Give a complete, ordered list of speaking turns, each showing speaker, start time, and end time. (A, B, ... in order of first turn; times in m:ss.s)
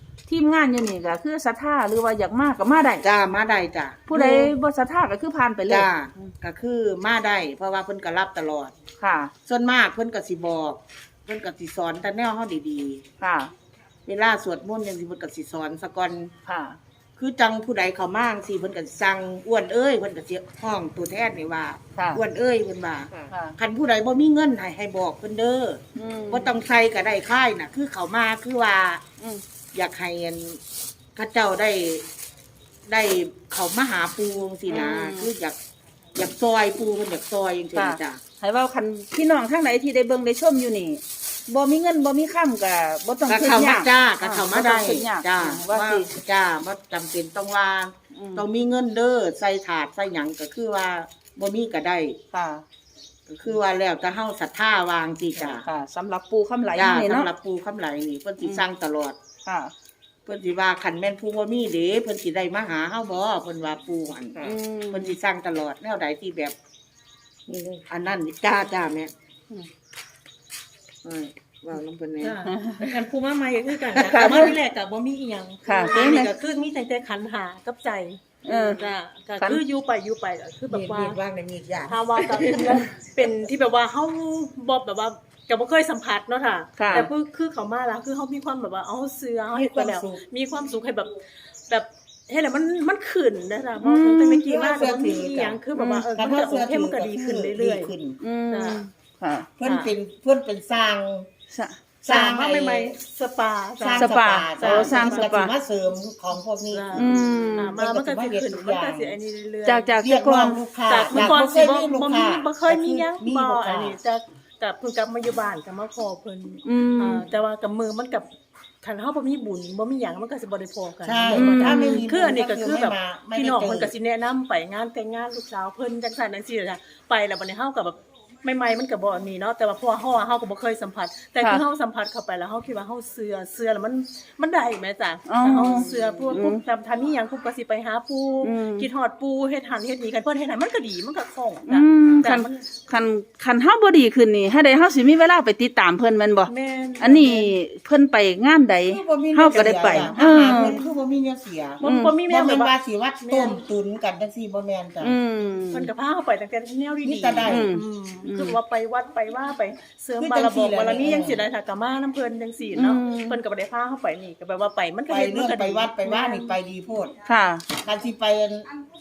0:00.3-0:03.0 A
0:03.0-0:04.5 B
0:04.1-0:05.9 A
0:05.7-0:08.7 B
0:09.0-0:09.3 A
0:09.4-0:13.0 B
0:13.2-0:13.5 A
0:14.0-0:16.3 B
0:16.4-0:16.8 A
0:17.2-0:29.0 B
0:22.0-0:22.2 A
0:23.3-0:23.6 A
0:26.0-0:26.5 A
0:29.7-0:30.6 B
0:31.2-0:32.0 B
0:32.8-0:35.6 B
0:34.7-0:35.3 A
0:36.1-0:38.2 B
0:37.7-0:46.1 A
0:43.3-0:52.2 B
0:48.1-0:48.4 A
0:52.3-0:52.6 A
0:53.3-0:55.6 B
0:55.4-0:57.3 A
0:56.7-0:59.2 B
0:59.4-0:59.7 A
1:00.2-1:06.5 B
1:04.4-1:05.2 A
1:07.9-1:09.1 B
1:11.0-1:12.5 B
1:12.2-1:21.2 C
1:12.5-1:12.8 A
1:14.0-1:14.5 A
1:15.6-1:16.3 A
1:18.4-1:18.8 A
1:20.7-1:22.8 B
1:21.9-1:31.2 C
1:26.8-1:27.1 A
1:29.5-1:30.2 B
1:31.7-1:37.9 C
1:33.8-1:34.4 A
1:34.4-1:35.6 B
1:35.7-1:36.1 A
1:36.2-1:38.2 B
1:38.2-1:39.5 A
1:38.5-1:38.8 C
1:39.6-1:41.3 B
1:39.6-1:39.9 C
1:41.5-1:41.8 A
1:42.0-1:43.0 B
1:42.0-1:45.3 C
1:43.8-1:49.1 B
1:44.0-1:45.5 A
1:46.7-1:50.0 C
1:46.9-1:47.8 A
1:49.6-1:50.6 A
1:50.0-1:54.0 B
1:50.9-1:58.3 C
1:56.6-1:57.3 A
1:58.8-2:22.6 C
2:01.0-2:03.9 B
2:01.3-2:02.0 A
2:15.3-2:16.6 A
2:18.4-2:18.9 A
2:21.7-2:30.8 A
2:26.5-2:27.6 C
2:28.9-2:35.1 B
2:29.5-2:30.8 C
2:31.8-2:33.6 C
2:31.8-2:32.1 A
2:35.0-2:35.9 A
2:35.7-2:46.5 C
2:37.0-2:37.7 B
2:37.5-2:38.6 A
2:40.2-2:41.4 B
2:42.8-2:43.4 A
2:45.1-2:47.1 B
2:47.2-2:47.6 A
2:47.8-2:48.7 B